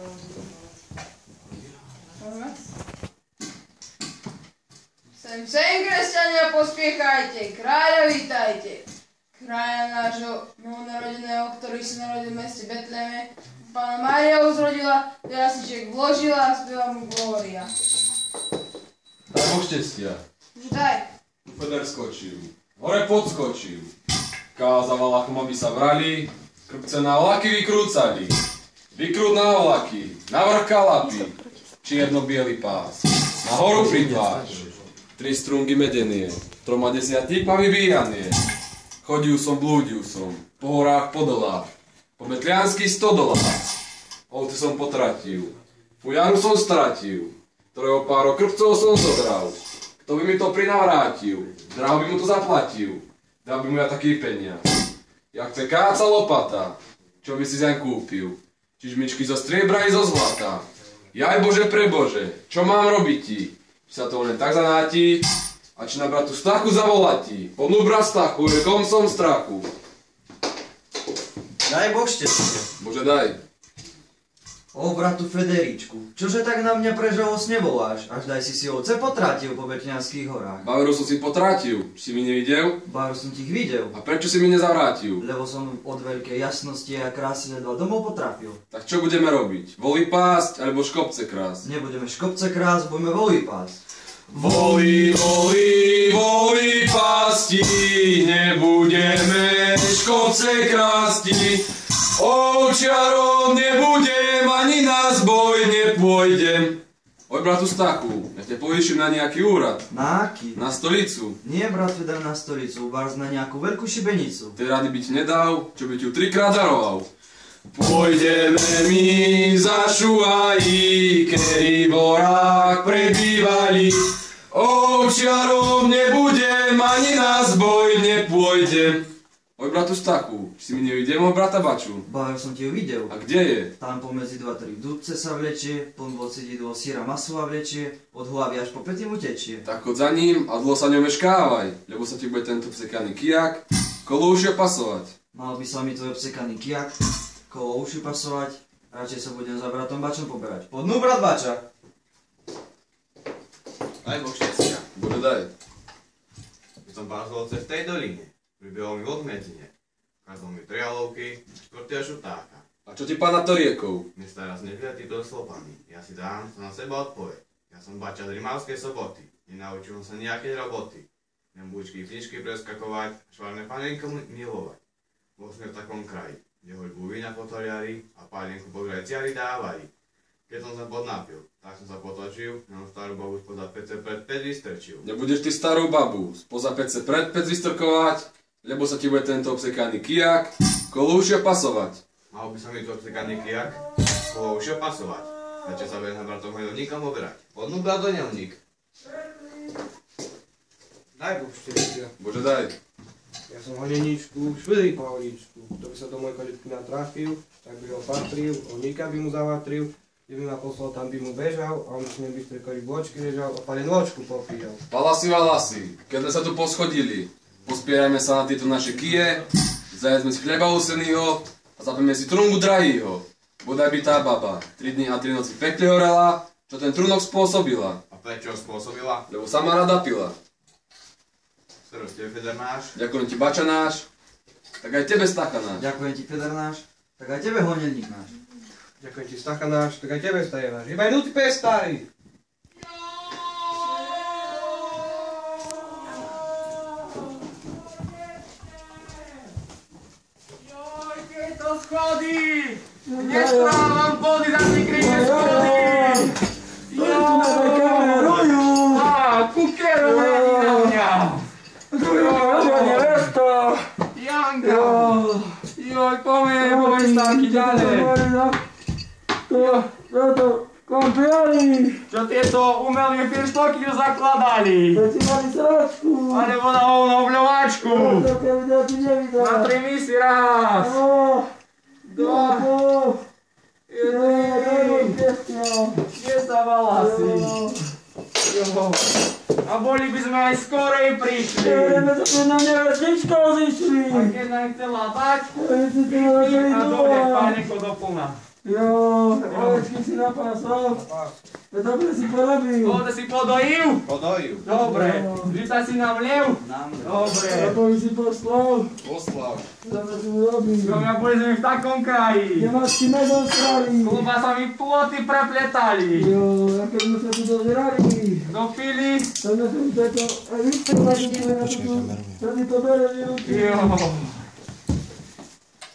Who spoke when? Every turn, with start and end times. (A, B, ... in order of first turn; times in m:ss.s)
0:02.2-0:02.5 A
0:05.2-0:17.7 A
0:19.3-0:20.2 B
0:20.6-0:21.1 A
0:21.5-0:23.9 B
0:24.6-0:28.4 B
0:28.9-0:34.6 B
0:35.2-0:38.4 B
0:39.0-0:43.7 B
0:44.3-0:54.6 B
0:55.3-1:09.7 B
1:11.6-1:12.7 C
1:12.8-1:13.4 B
1:14.7-1:20.7 C
1:20.6-1:22.8 B
1:22.8-1:24.0 C
1:23.9-1:25.2 B
1:25.2-1:28.6 C
1:28.7-1:31.7 B
1:31.6-1:33.8 C
1:34.3-1:49.9 B
1:34.4-1:34.9 C
1:49.9-1:50.6 C
1:50.5-1:51.4 B
1:51.4-1:54.6 C
1:54.6-1:57.1 B
1:57.7-2:12.1 B
2:12.1-2:13.2 C
2:13.1-2:13.7 B
2:13.8-2:19.7 C
2:19.7-2:25.1 B
2:25.3-2:27.0 C
2:27.5-2:31.6 C
2:34.0-2:34.9 D
2:34.9-2:35.5 B
2:36.8-2:39.7 D
2:40.2-2:42.6 D
2:42.9-2:44.1 B
2:44.2-2:54.8 D
2:55.4-2:59.9 D
3:00.5-3:05.1 D
3:05.0-3:12.0 B
3:12.3-3:18.6 D
3:21.2-3:22.1 E
3:22.2-3:22.8 B
3:23.5-3:34.8 E
3:34.9-3:48.0 B
3:48.1-3:49.2 D
3:49.3-3:50.4 B
3:51.9-3:53.0 D
3:52.9-3:54.1 B
3:54.8-3:55.8 B
3:55.8-3:58.3 C
3:59.0-4:02.1 E
4:03.2-4:05.2 F
4:10.7-4:16.4 F
4:13.1-4:13.8 G
4:14.9-4:16.3 G
4:16.9-4:21.5 F
4:16.9-4:19.1 G
4:20.0-4:21.0 G
4:21.9-4:23.8 G
4:22.0-4:23.3 F
4:24.1-4:25.2 F
4:24.6-4:25.6 G
4:25.7-4:28.1 F
4:26.6-4:28.6 G
4:29.5-4:32.0 G
4:29.5-4:29.8 F
4:32.1-4:35.0 F
4:34.9-4:36.5 G
4:36.3-4:38.3 F
4:37.9-4:39.7 G
4:39.4-4:41.0 F
4:40.8-4:41.5 G
4:42.0-4:42.7 F
4:42.2-4:43.2 G
4:43.9-4:45.2 F
4:44.0-4:46.0 G
4:46.1-4:47.6 F
4:47.0-4:47.8 G
4:48.5-4:49.1 F
4:49.6-4:52.1 F
4:51.6-4:54.3 G
4:54.1-4:58.4 F
4:55.5-4:57.6 G
4:58.6-5:01.0 G
4:59.5-4:59.9 F
5:01.0-5:01.3 E
5:01.7-5:03.0 G
5:02.8-5:04.0 F
5:04.1-5:04.7 D
5:04.6-5:07.8 F
5:04.8-5:05.6 G
5:06.6-5:07.3 C
5:07.5-5:08.9 G
5:09.1-5:09.6 D
5:09.8-5:11.1 G
5:10.8-5:12.7 F
5:12.6-5:14.3 G
5:14.0-5:16.3 F
5:16.1-5:18.5 G
5:18.5-5:19.3 F
5:19.4-5:24.0 G
5:23.5-5:24.4 F